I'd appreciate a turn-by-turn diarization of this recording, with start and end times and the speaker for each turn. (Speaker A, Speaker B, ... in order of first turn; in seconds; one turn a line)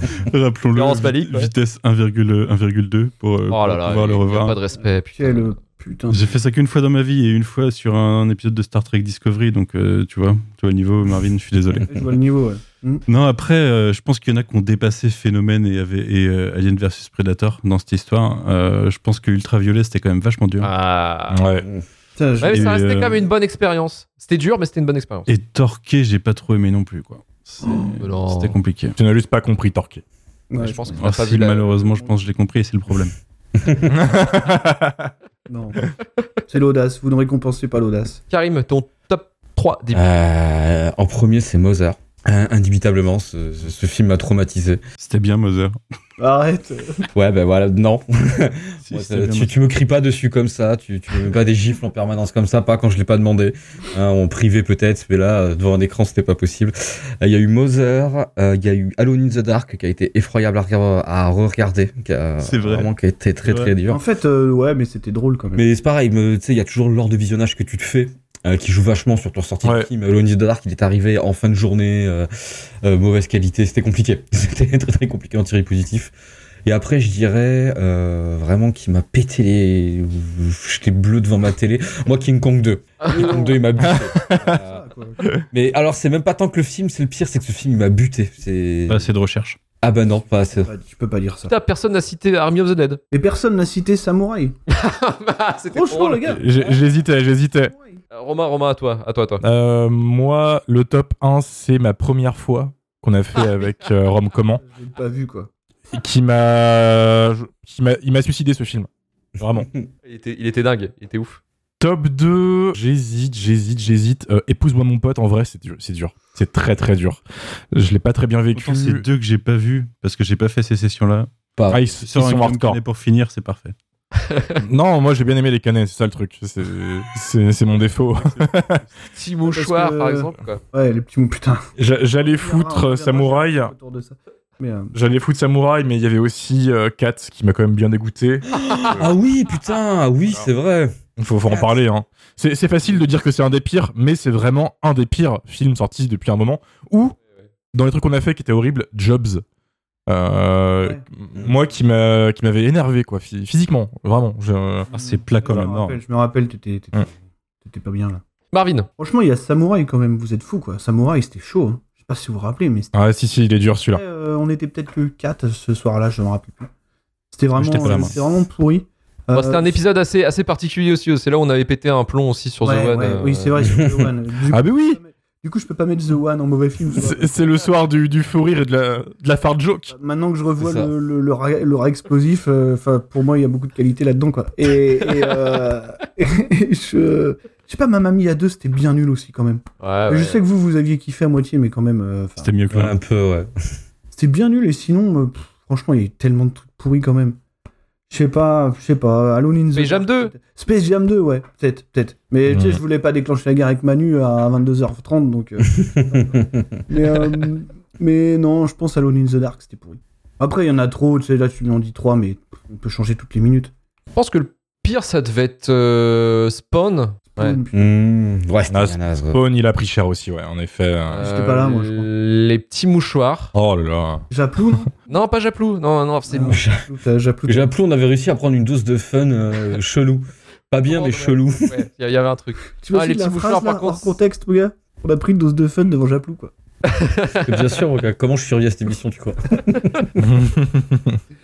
Speaker A: 0.1-4.6
Speaker B: 0.7-1.5
Speaker B: 3.5-5.6
Speaker C: 5.1-6.4
Speaker A: 6.1-12.0
Speaker C: 11.9-13.0
Speaker A: 13.1-20.7
Speaker B: 20.6-21.4
Speaker D: 21.3-21.6
Speaker C: 22.2-22.7
Speaker B: 22.4-25.3
Speaker A: 22.5-23.2
Speaker A: 25.3-29.0
Speaker B: 28.0-28.6
Speaker D: 29.0-30.0
Speaker C: 30.5-31.0
Speaker B: 30.6-31.9
Speaker A: 31.0-33.1
Speaker E: 33.6-33.9
Speaker D: 33.9-35.1
Speaker C: 35.5-35.8
Speaker C: 36.5-38.2
Speaker B: 38.3-40.0
Speaker E: 39.9-44.8
Speaker A: 45.0-45.8
Speaker C: 46.2-47.1
Speaker E: 47.1-64.0
Speaker A: 48.8-49.5
Speaker A: 62.4-62.9
Speaker A: 63.5-63.7
Speaker C: 63.9-65.7
Speaker E: 65.6-72.3
Speaker D: 69.6-69.9
Speaker E: 72.8-76.1
Speaker E: 76.7-84.8
Speaker B: 83.0-83.3
Speaker C: 83.1-85.3
Speaker D: 83.9-84.5
Speaker E: 85.5-89.1
Speaker A: 88.9-89.6
Speaker E: 89.8-90.7
Speaker C: 90.5-91.5
Speaker B: 91.5-93.0
Speaker C: 93.1-94.6
Speaker B: 94.7-96.6
Speaker C: 95.7-96.8
Speaker D: 96.3-97.7
Speaker C: 97.7-98.0
Speaker B: 98.1-99.4
Speaker D: 99.4-104.6
Speaker C: 104.6-105.5
Speaker D: 105.9-109.7
Speaker E: 109.6-109.8
Speaker B: 110.1-111.4
Speaker D: 111.8-117.2
Speaker D: 117.7-119.0
Speaker A: 118.5-121.4
Speaker E: 121.6-121.8
Speaker D: 121.7-122.8
Speaker A: 122.0-123.8
Speaker B: 124.2-124.5
Speaker D: 124.7-128.8
Speaker A: 128.2-128.9
Speaker B: 129.2-130.6
Speaker C: 129.5-134.9
Speaker D: 131.8-133.7
Speaker D: 134.9-139.1
Speaker E: 138.6-140.9
Speaker D: 141.2-147.2
Speaker D: 147.7-149.4
Speaker D: 150.1-154.9
Speaker A: 154.9-156.0
Speaker C: 154.9-157.1
Speaker C: 157.6-158.2
Speaker B: 158.5-158.9
Speaker C: 159.0-162.9
Speaker D: 162.9-164.0
Speaker C: 163.9-166.7
Speaker C: 167.3-169.8
Speaker A: 167.6-168.2
Speaker E: 167.7-168.2
Speaker B: 169.3-173.6
Speaker C: 172.6-177.7
Speaker E: 173.6-174.1
Speaker D: 174.5-175.0
Speaker D: 176.9-179.9
Speaker C: 179.9-192.5
Speaker E: 180.6-180.9
Speaker B: 189.8-190.4
Speaker A: 192.4-192.9
Speaker E: 192.7-193.5
Speaker C: 194.1-197.4
Speaker C: 198.1-213.7
Speaker B: 199.7-200.3
Speaker D: 202.5-202.8
Speaker E: 205.8-206.7
Speaker B: 214.2-217.6
Speaker C: 217.3-217.9
Speaker E: 217.7-219.4
Speaker D: 218.7-221.3
Speaker B: 221.1-223.5
Speaker C: 221.2-222.1
Speaker D: 223.5-224.2
Speaker C: 224.3-224.9
Speaker B: 225.1-226.6
Speaker C: 226.3-227.7
Speaker E: 226.5-226.9
Speaker E: 227.5-231.8
Speaker B: 230.9-234.2
Speaker C: 232.8-236.5
Speaker B: 236.9-237.6
Speaker E: 237.4-240.2
Speaker D: 240.2-241.2